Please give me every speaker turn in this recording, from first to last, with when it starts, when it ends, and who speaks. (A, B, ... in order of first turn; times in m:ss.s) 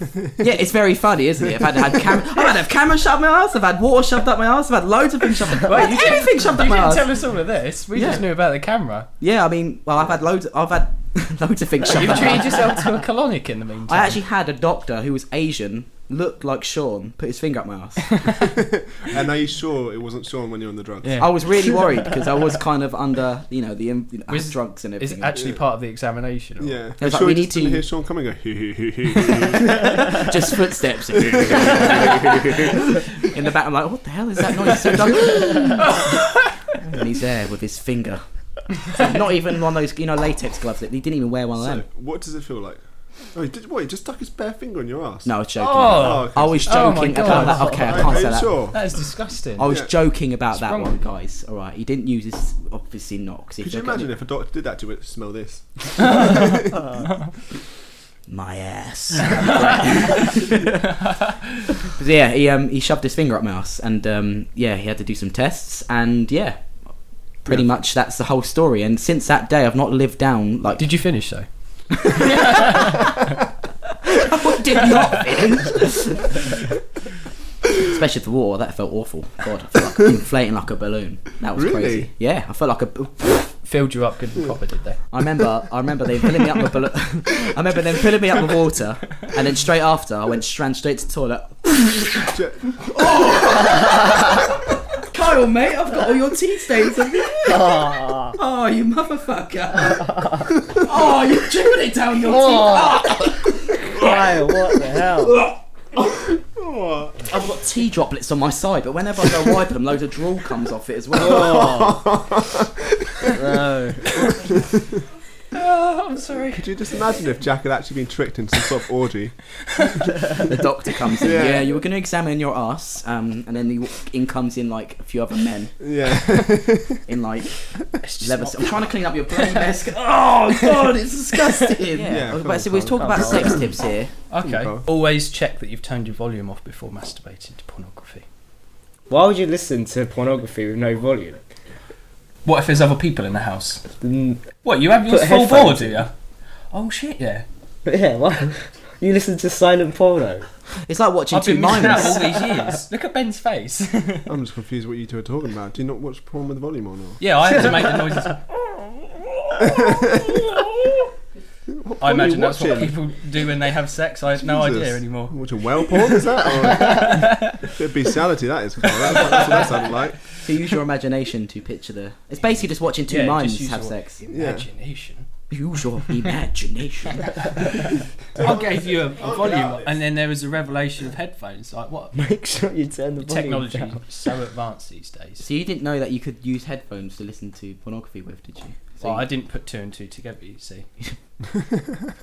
0:00.4-0:07.1 A
0:05.6-0:09.1 B
0:07.9-0:08.3 A
0:09.2-0:12.8 A
0:11.8-0:14.2 B
0:13.9-0:18.1 A
0:18.4-0:21.3 C
0:21.0-0:21.3 B
0:21.2-0:25.4 A
0:24.3-0:26.8 B
0:25.3-0:25.6 C
0:26.6-0:30.1 C
0:27.0-0:27.9 A
0:29.7-0:36.0 A
0:31.5-0:32.0 C
0:36.7-0:38.2 A
0:38.8-0:41.8 A
0:41.6-0:42.8 C
0:43.3-0:45.3 C
0:45.2-0:48.7 A
0:45.6-0:48.2 B
0:45.9-0:48.9 C
0:48.7-0:49.7 B
0:49.6-0:54.1 A
0:49.6-0:49.9 C
0:50.5-0:51.0 B
0:53.6-0:56.9 C
0:58.3-1:00.7 A
1:01.9-1:11.2 A
1:10.8-1:12.9 B
1:12.1-1:13.0 A
1:14.2-1:16.4 A
1:17.8-1:23.6 A
1:21.5-1:22.1 C
1:23.6-1:25.0 B
1:25.1-1:32.3 A
1:32.3-1:33.4 C
1:32.9-1:44.1 A
1:37.4-1:38.4 D
1:42.2-1:43.0 D
1:43.9-1:45.4 D
1:46.2-1:47.2 C
1:47.2-1:51.5 A
1:51.2-1:53.3 C
1:51.2-1:52.0 D
1:53.4-1:54.2 D
1:54.2-1:54.8 C
1:55.5-1:57.3 B
1:56.6-1:59.5 C
2:00.3-2:05.8 A
2:01.2-2:01.8 C
2:05.8-2:07.0 C
2:07.1-2:14.1 A
2:08.0-2:10.9 B
2:12.0-2:13.7 C
2:13.0-2:13.7 D
2:14.3-2:18.2 B
2:14.4-2:14.8 C
2:19.1-2:21.4 D
2:22.4-2:23.8 B
2:24.0-2:26.0 D
2:24.6-2:26.1 B
2:26.7-2:27.4 B
2:27.8-2:30.4 D
2:30.8-2:32.6 A
2:31.3-2:34.3 B
2:34.3-2:37.5 C
2:37.2-2:38.5 B
2:37.6-2:38.3 D
2:39.6-2:40.3 C
2:41.7-2:43.0 C
2:42.0-2:47.6 B
2:44.4-2:50.2 C
2:49.1-2:49.6 B
2:50.4-2:54.2 A
2:53.1-2:55.3 B
2:54.3-2:54.7 C
2:55.5-2:57.2 A
2:57.6-3:02.2 B
2:58.3-3:00.0 C
3:02.1-3:04.0 D
3:03.2-3:05.4 B
3:05.4-3:09.3 A
3:09.0-3:10.9 B